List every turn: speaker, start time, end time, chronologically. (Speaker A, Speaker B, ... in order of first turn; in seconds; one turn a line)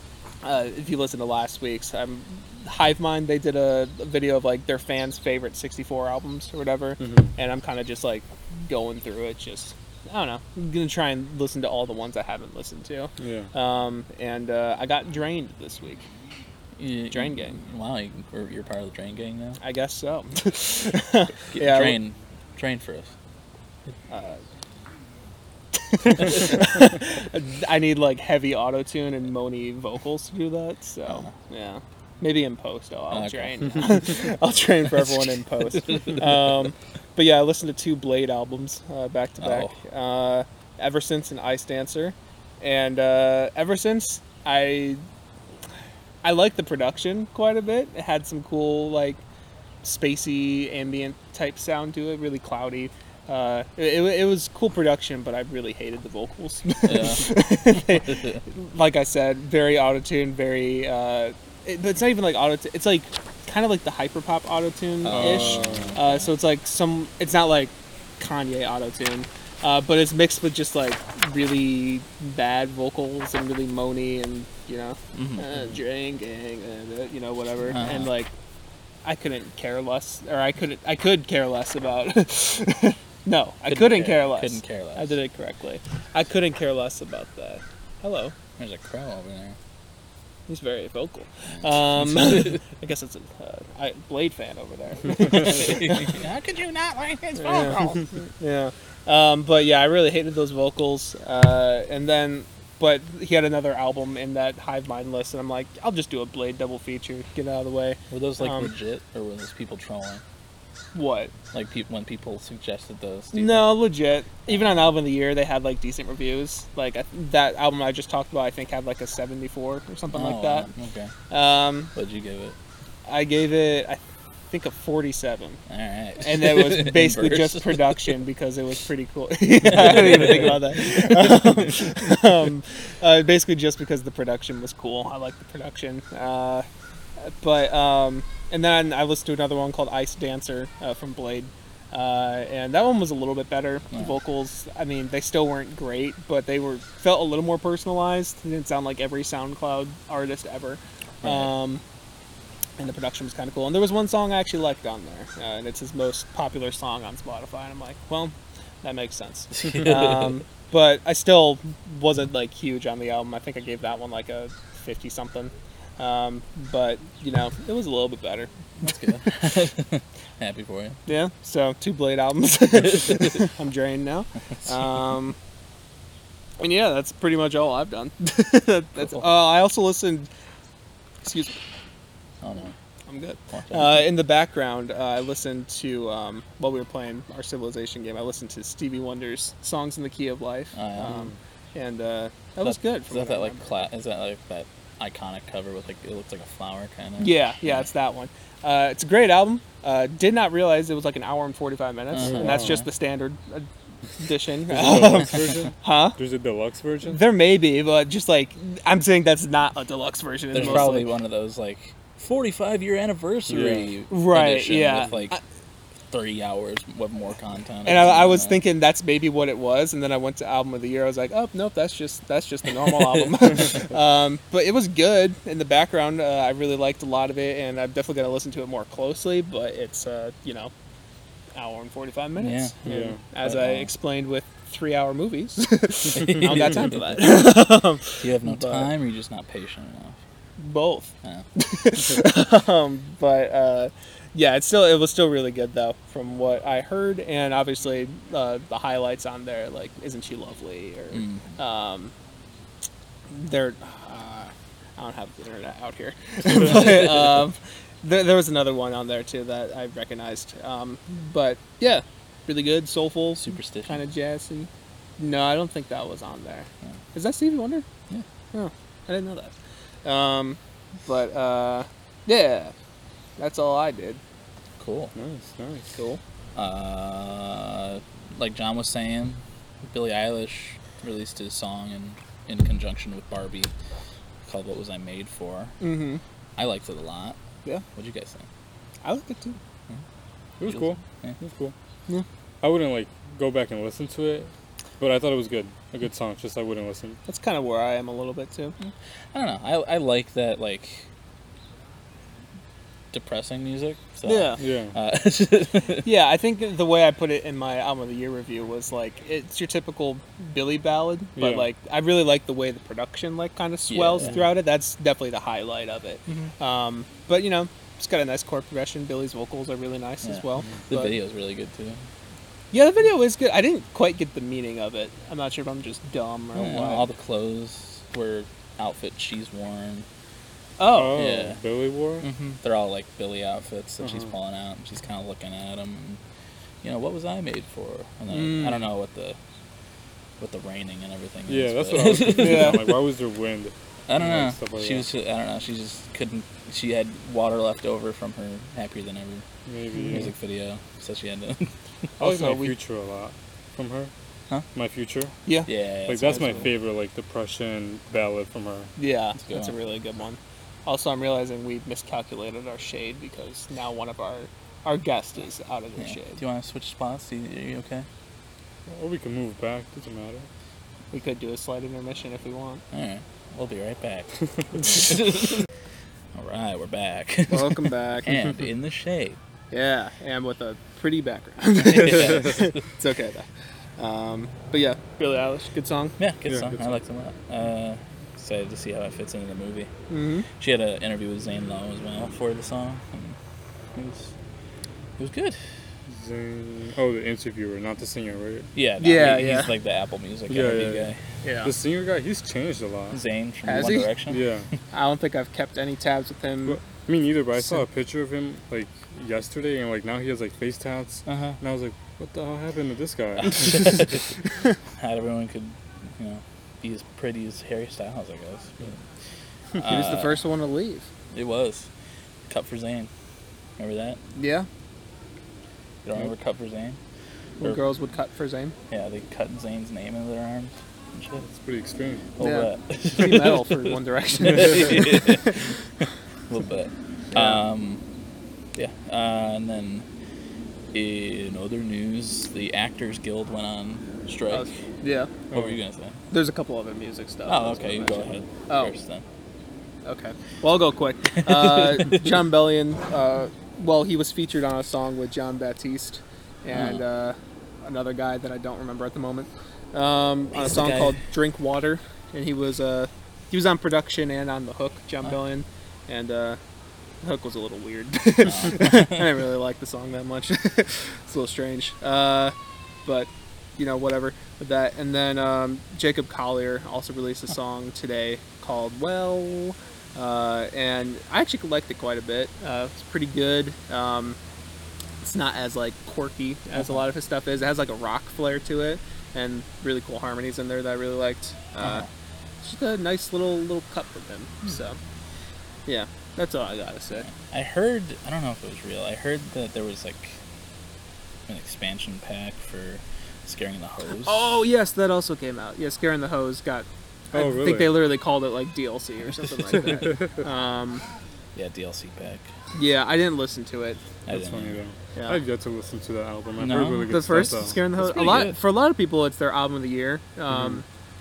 Speaker A: 0.4-16.1
Speaker B: 7.0-7.3
Speaker B: 13.2-13.5
Speaker C: 16.8-19.6
Speaker A: 17.1-17.6
Speaker A: 19.6-22.0
Speaker C: 21.5-23.1
Speaker A: 24.1-24.4
Speaker A: 25.9-45.0
Speaker C: 33.1-34.0
Speaker C: 34.9-35.2
Speaker C: 35.8-36.2
Speaker C: 39.4-39.7
Speaker A: 46.2-49.2
Speaker A: 49.8-78.3
Speaker C: 56.9-58.4
Speaker C: 65.0-66.3
Speaker B: 65.1-65.9
Speaker C: 75.1-75.4
Speaker C: 77.7-78.1
Speaker A: 79.0-88.3
Speaker C: 83.7-85.2
Speaker C: 88.6-89.6
Speaker A: 90.5-96.2
Speaker C: 91.6-92.6
Speaker C: 95.1-98.0
Speaker A: 97.4-108.7
Speaker C: 108.1-110.2
Speaker A: 110.9-111.3
Speaker C: 111.5-113.8
Speaker A: 113.3-120.7
Speaker C: 114.5-114.9
Speaker C: 120.1-121.1
Speaker A: 121.3-121.9
Speaker C: 121.9-122.6
Speaker A: 123.1-124.0
Speaker A: 124.5-125.6
Speaker C: 125.7-128.0
Speaker A: 126.2-136.7
Speaker C: 129.6-130.6
Speaker A: 137.2-151.8
Speaker C: 151.2-151.5
Speaker A: 152.8-168.5
Speaker C: 159.6-160.4
Speaker C: 168.8-171.0
Speaker A: 171.1-175.4
Speaker A: 176.6-180.3
Speaker A: 181.2-181.6
Speaker C: 182.4-182.7
Speaker A: 183.1-193.6
Speaker C: 183.5-184.1
Speaker C: 190.7-191.3
Speaker C: 192.6-197.9
Speaker A: 197.2-206.2
Speaker C: 202.1-202.9
Speaker B: 202.2-202.8
Speaker B: 204.7-207.2
Speaker A: 207.1-211.1
Speaker C: 210.5-215.4
Speaker B: 210.6-210.9
Speaker B: 213.5-213.9
Speaker A: 214.1-215.4
Speaker C: 216.1-218.6
Speaker A: 217.9-230.7
Speaker A: 231.6-238.9
Speaker C: 232.4-232.8
Speaker B: 232.8-233.2
Speaker C: 233.4-233.9
Speaker C: 236.1-237.4
Speaker C: 238.2-240.2
Speaker A: 240.6-252.1
Speaker C: 251.1-251.4
Speaker A: 253.3-267.9
Speaker C: 263.4-264.0
Speaker A: 268.5-269.5
Speaker A: 270.1-272.7
Speaker A: 273.4-274.2
Speaker C: 274.8-275.1
Speaker B: 275.1-275.9
Speaker A: 275.9-276.2
Speaker C: 276.6-283.7
Speaker C: 284.4-285.8
Speaker A: 285.8-286.2
Speaker C: 286.6-287.4
Speaker C: 287.9-288.5
Speaker A: 289.0-289.6
Speaker B: 290.6-291.7
Speaker C: 290.7-291.4
Speaker B: 292.6-297.2
Speaker A: 297.3-298.8
Speaker C: 298.8-301.1
Speaker C: 303.1-306.1
Speaker A: 304.2-304.6
Speaker B: 304.6-304.9
Speaker A: 306.0-321.1
Speaker B: 311.4-311.7
Speaker C: 313.9-314.4
Speaker C: 320.2-322.0
Speaker A: 322.7-327.1
Speaker C: 326.5-330.1
Speaker A: 330.8-331.3
Speaker B: 330.9-332.3
Speaker C: 331.1-331.6
Speaker C: 332.2-336.2
Speaker B: 334.0-334.3
Speaker C: 336.8-339.4
Speaker A: 338.3-338.8
Speaker C: 340.4-342.9
Speaker B: 341.5-345.1
Speaker A: 342.4-342.9
Speaker C: 344.1-349.5
Speaker B: 349.6-350.3
Speaker C: 350.1-351.7
Speaker A: 352.2-352.7
Speaker B: 352.2-354.1
Speaker B: 354.7-355.4
Speaker C: 355.7-356.7
Speaker B: 356.1-358.9
Speaker A: 359.0-366.4
Speaker C: 359.5-359.7
Speaker C: 366.0-368.1
Speaker B: 368.9-370.5
Speaker A: 371.1-372.8
Speaker C: 372.9-375.7
Speaker C: 376.3-379.4
Speaker A: 377.5-378.3
Speaker A: 379.7-386.1
Speaker C: 381.8-382.8
Speaker C: 386.2-389.9
Speaker B: 386.4-387.0
Speaker A: 390.1-390.5
Speaker C: 390.6-393.4
Speaker C: 393.9-394.3
Speaker C: 395.2-395.6
Speaker B: 396.1-398.7
Speaker C: 398.8-401.2
Speaker A: 399.0-399.7
Speaker B: 400.5-401.1
Speaker A: 401.4-401.7
Speaker B: 401.6-403.2
Speaker C: 403.1-404.4
Speaker A: 403.6-404.1
Speaker B: 404.3-404.7
Speaker A: 404.9-406.8
Speaker B: 406.6-414.1
Speaker C: 411.3-411.6
Speaker C: 413.4-414.2
Speaker C: 415.0-418.9
Speaker C: 419.8-420.4
Speaker A: 419.8-421.1
Speaker C: 421.3-421.9
Speaker C: 422.5-423.1
Speaker C: 423.8-424.2
Speaker A: 424.4-424.7
Speaker C: 426.1-427.0
Speaker A: 427.6-428.8
Speaker C: 428.9-431.4
Speaker B: 431.4-432.3
Speaker C: 432.4-433.9
Speaker A: 432.4-435.6
Speaker C: 434.4-435.7
Speaker C: 436.5-438.0
Speaker A: 437.3-437.6
Speaker C: 438.8-440.1
Speaker C: 440.9-444.7
Speaker A: 444.5-445.3
Speaker C: 445.5-446.2
Speaker B: 445.5-445.8
Speaker A: 446.3-448.9
Speaker C: 447.4-449.2
Speaker A: 450.1-466.6
Speaker C: 451.4-452.3
Speaker C: 456.7-457.0
Speaker C: 460.6-461.2
Speaker A: 467.2-472.5
Speaker C: 468.4-469.2
Speaker A: 473.1-484.4
Speaker A: 485.2-492.1
Speaker C: 491.8-492.1
Speaker A: 492.6-495.0
Speaker A: 495.9-497.3
Speaker C: 497.3-500.4
Speaker C: 501.5-504.5
Speaker A: 504.2-511.0
Speaker B: 507.3-508.0
Speaker B: 509.7-510.3
Speaker C: 511.6-512.5
Speaker A: 512.7-514.0
Speaker C: 514.3-514.8
Speaker B: 514.3-517.8
Speaker A: 515.1-515.4
Speaker C: 516.6-518.6
Speaker A: 517.1-520.9
Speaker B: 520.5-520.8